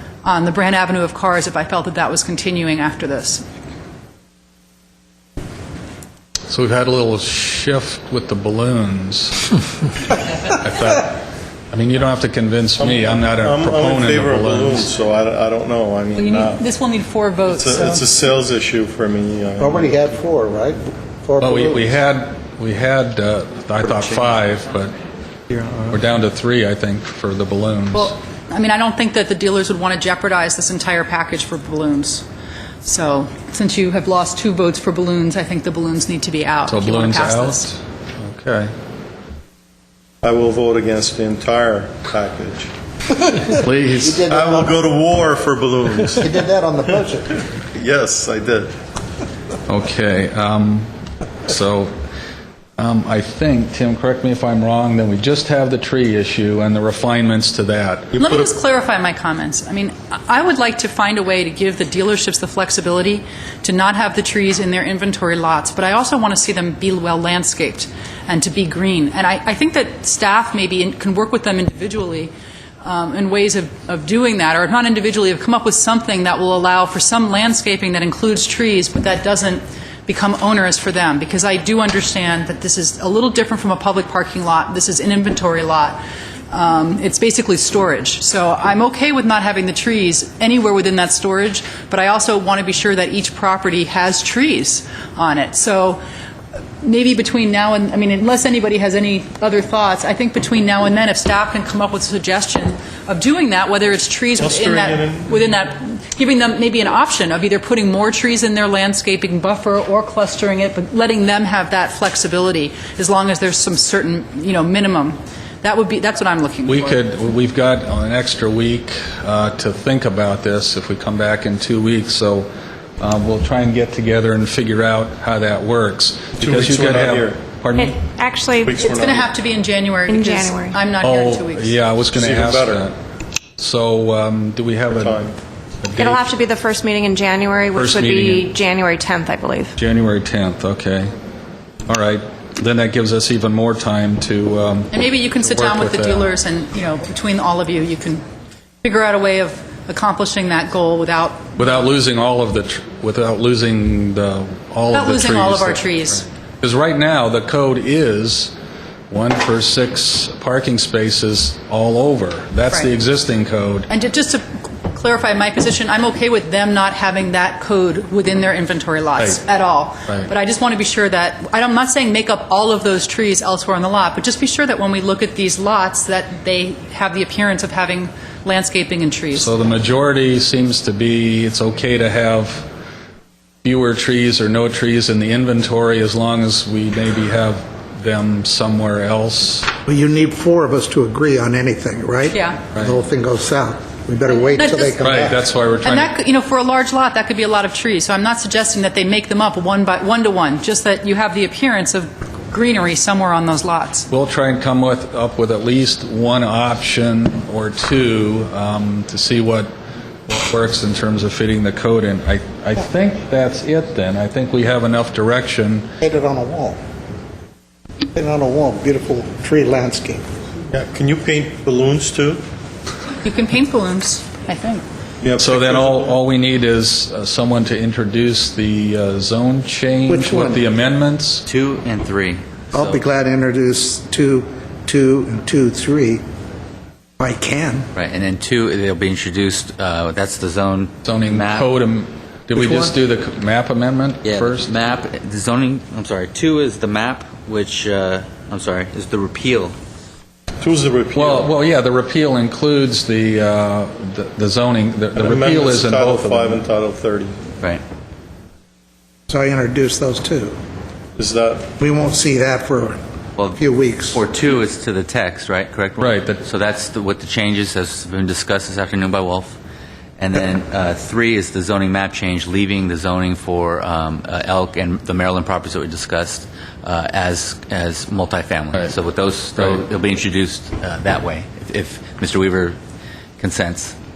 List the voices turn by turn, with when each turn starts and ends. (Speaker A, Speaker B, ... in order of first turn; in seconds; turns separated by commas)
Speaker A: 0.2-3.4, Speaker B: 6.5-9.5, Speaker B: 10.5-14.9, Speaker C: 13.5-16.6, Speaker A: 16.1-18.1, Speaker C: 17.6-19.8, Speaker D: 19.6-21.8, Speaker B: 21.4-24.9, Speaker B: 25.9-28.1, Speaker A: 27.9-32.2, Speaker A: 32.8-37.7, Speaker B: 36.7-38.7, Speaker C: 40.2-42.7, Speaker B: 43.4-44.3, Speaker D: 44.0-44.9, Speaker C: 44.3-46.2, Speaker D: 46.2-47.3, Speaker C: 47.8-48.7, Speaker B: 49.7-50.9, Speaker B: 51.4-51.9, Speaker B: 52.8-58.1, Speaker A: 58.1-96.0, Speaker A: 96.8-117.0, Speaker C: 104.4-105.2, Speaker B: 116.7-128.0, Speaker C: 126.4-127.3, Speaker E: 127.8-128.8, Speaker C: 128.7-129.2, Speaker A: 128.8-131.8, Speaker E: 130.1-130.8, Speaker B: 131.0-132.9, Speaker C: 132.2-132.7, Speaker B: 133.6-135.2, Speaker C: 135.0-135.3, Speaker B: 135.8-136.2, Speaker E: 136.0-139.7, Speaker B: 137.7-138.5, Speaker B: 139.8-141.1, Speaker B: 141.9-146.3, Speaker A: 144.9-148.2, Speaker A: 148.8-151.5, Speaker B: 151.6-158.5, Speaker A: 154.9-156.3, Speaker B: 159.1-163.9, Speaker A: 163.9-179.5, Speaker B: 179.3-182.7, Speaker B: 183.6-189.7, Speaker D: 189.8-195.3, Speaker A: 192.3-192.6, Speaker A: 194.6-195.2, Speaker B: 195.0-196.1, Speaker A: 195.8-204.1, Speaker B: 204.1-209.7, Speaker B: 210.3-215.9, Speaker D: 216.0-216.8, Speaker D: 218.1-220.2, Speaker C: 220.7-222.4, Speaker A: 223.2-224.8, Speaker C: 225.2-225.9, Speaker B: 225.4-231.4, Speaker D: 230.1-230.6, Speaker F: 231.4-233.0, Speaker D: 232.7-236.2, Speaker D: 237.2-237.9, Speaker F: 237.9-241.7, Speaker B: 241.0-244.7, Speaker D: 242.5-242.9, Speaker F: 244.2-249.8, Speaker C: 250.6-251.4, Speaker B: 251.1-256.6, Speaker C: 255.2-257.4, Speaker D: 259.3-260.6, Speaker C: 261.2-261.7, Speaker D: 261.8-263.0, Speaker F: 263.4-269.6, Speaker D: 263.6-264.2, Speaker B: 266.0-266.4, Speaker F: 270.2-282.8, Speaker F: 283.4-283.9